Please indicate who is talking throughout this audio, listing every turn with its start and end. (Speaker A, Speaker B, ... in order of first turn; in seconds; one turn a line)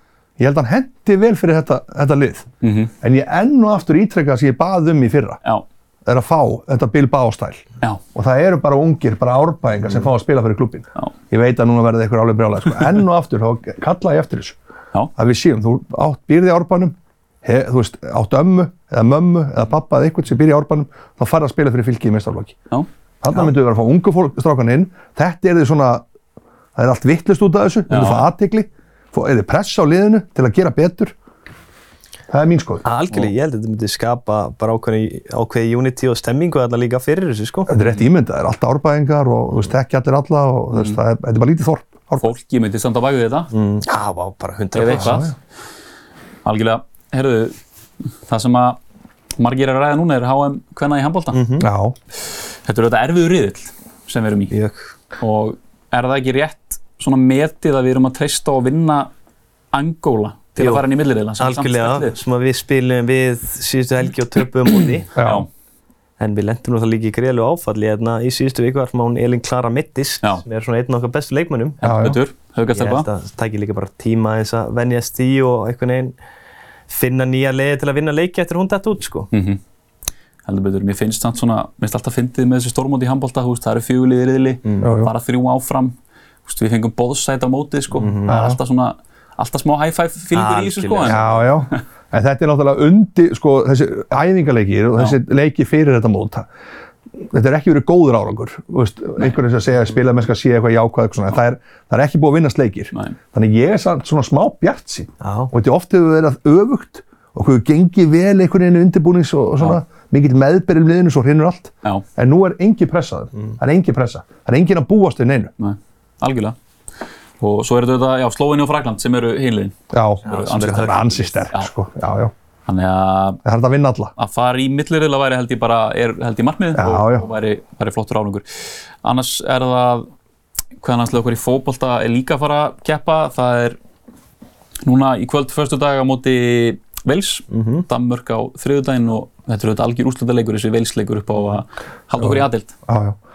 Speaker A: 0.4-2.5
Speaker B: 2.6-2.9
Speaker A: 3.0-5.4
Speaker A: 6.0-14.6
Speaker A: 15.2-22.6
Speaker A: 23.2-26.0
Speaker A: 26.8-31.1
Speaker B: 27.9-28.3
Speaker A: 32.3-32.8
Speaker C: 32.8-37.7
Speaker A: 37.7-42.3
Speaker B: 40.7-41.0
Speaker B: 42.2-43.5
Speaker C: 43.5-45.3
Speaker B: 44.7-45.3
Speaker A: 44.9-45.3
Speaker B: 46.4-47.5
Speaker B: 48.3-48.8
Speaker B: 49.4-51.4
Speaker C: 51.3-51.7
Speaker A: 51.6-52.0
Speaker B: 52.6-54.5
Speaker C: 54.5-54.8
Speaker B: 55.2-59.1
Speaker B: 59.7-62.1
Speaker C: 60.6-60.8
Speaker C: 61.4-65.1
Speaker A: 65.2-65.5
Speaker B: 65.2-65.5
Speaker C: 66.2-71.8
Speaker B: 71.8-73.1
Speaker A: 71.8-72.2
Speaker C: 72.7-76.1
Speaker C: 76.9-79.3
Speaker B: 79.3-79.6
Speaker B: 80.4-85.9
Speaker A: 84.8-85.1
Speaker B: 86.5-91.2
Speaker C: 87.9-88.3
Speaker A: 88.3-88.6
Speaker C: 90.3-91.4
Speaker A: 91.0-96.5
Speaker A: 97.2-115.5
Speaker C: 105.2-105.5
Speaker B: 115.6-116.5
Speaker B: 117.4-121.0
Speaker A: 119.9-122.3
Speaker C: 120.2-121.5
Speaker B: 122.7-123.4
Speaker A: 123.4-124.1
Speaker B: 124.2-130.1
Speaker A: 126.7-127.3
Speaker B: 130.8-133.8
Speaker B: 134.8-142.7
Speaker C: 137.5-137.8
Speaker A: 142.2-143.2